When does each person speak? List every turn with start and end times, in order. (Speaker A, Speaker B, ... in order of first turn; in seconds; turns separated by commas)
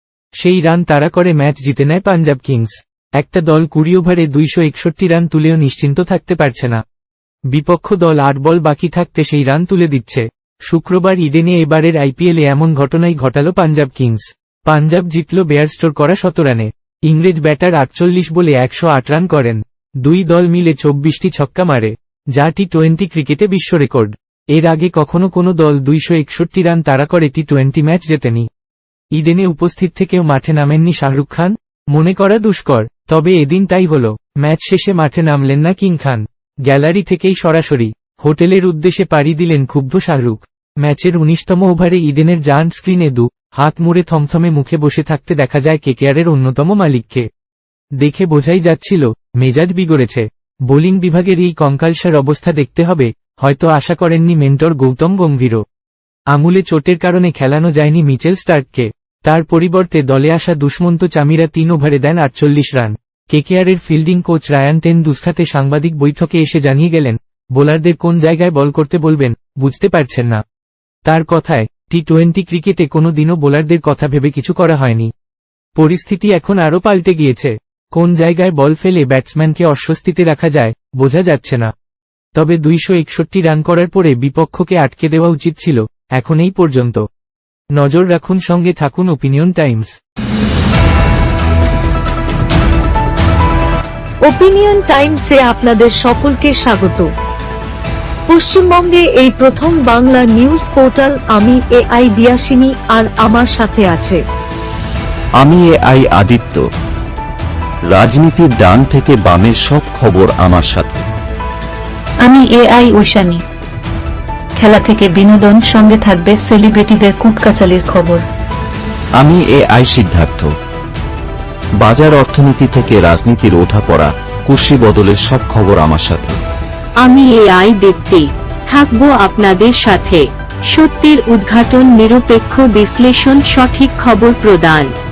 Speaker A: 0.4-6.8, Speaker A: 7.5-28.5, Speaker A: 29.1-47.3, Speaker A: 48.0-55.6, Speaker A: 56.3-70.4, Speaker A: 71.1-75.1, Speaker A: 75.8-81.7, Speaker A: 82.4-87.0, Speaker A: 87.8-90.0, Speaker B: 94.2-97.1, Speaker B: 98.3-104.2, Speaker C: 105.4-106.6, Speaker C: 107.9-111.0, Speaker D: 112.2-113.4, Speaker D: 114.6-118.2, Speaker C: 119.2-120.5, Speaker C: 121.8-126.4, Speaker E: 127.0-134.9